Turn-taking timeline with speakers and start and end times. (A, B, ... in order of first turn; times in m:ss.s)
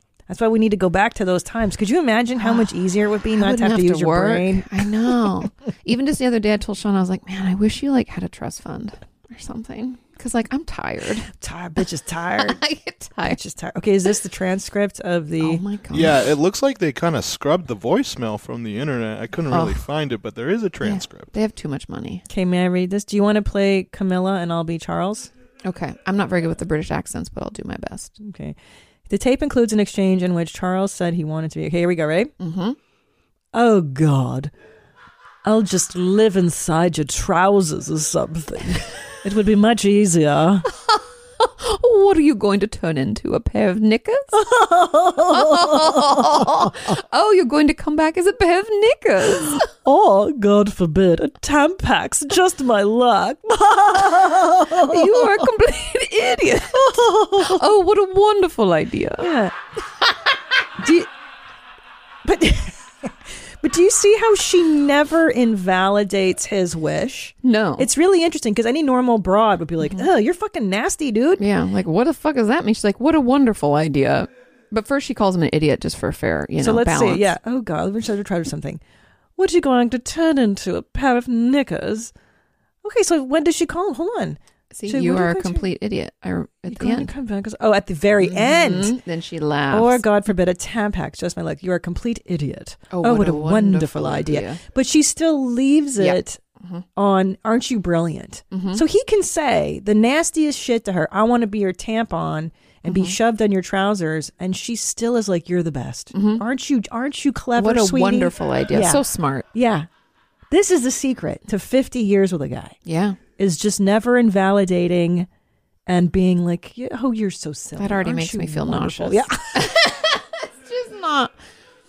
0:00.3-0:05.2 A
0:02.4-0:02.7 B
0:03.4-0:11.3 B
0:11.2-0:12.6 A
0:12.4-0:13.4 B
0:13.2-0:15.6 A
0:15.4-0:16.1 B
0:15.9-0:21.3 C
0:19.5-0:19.9 B
0:20.8-0:22.2 B
0:22.3-0:25.3 A
0:25.6-0:28.2 B
0:28.2-0:28.6 A
0:29.1-0:32.3 A
0:32.4-0:32.8 B
0:33.5-0:34.5 A
0:35.4-0:40.6 A
0:41.4-0:44.4 B
0:44.3-0:46.9 A
0:45.3-0:49.6 B
0:49.3-0:55.5 A
0:54.8-0:59.3 B
0:56.7-0:57.7 A
0:59.2-0:59.5 A
1:00.8-1:01.1 A
1:02.2-1:11.4 A
1:07.4-1:07.9 B
1:11.4-1:17.3 B
1:16.6-1:18.8 A
1:19.4-1:22.1 A
1:22.8-1:25.6 A
1:24.7-1:27.1 B
1:26.7-1:29.0 A
1:28.2-1:30.0 B
1:29.7-1:36.4 A
1:32.9-1:34.6 B
1:36.0-1:36.8 B
1:37.0-1:49.9 A
1:38.5-1:38.8 B
1:42.8-1:43.2 B
1:46.1-1:46.4 B
1:47.6-1:49.4 B
1:50.5-1:52.8 A
1:52.8-1:53.2 B
1:53.4-1:55.3 A
1:55.9-1:59.7 A
1:57.8-2:01.3 B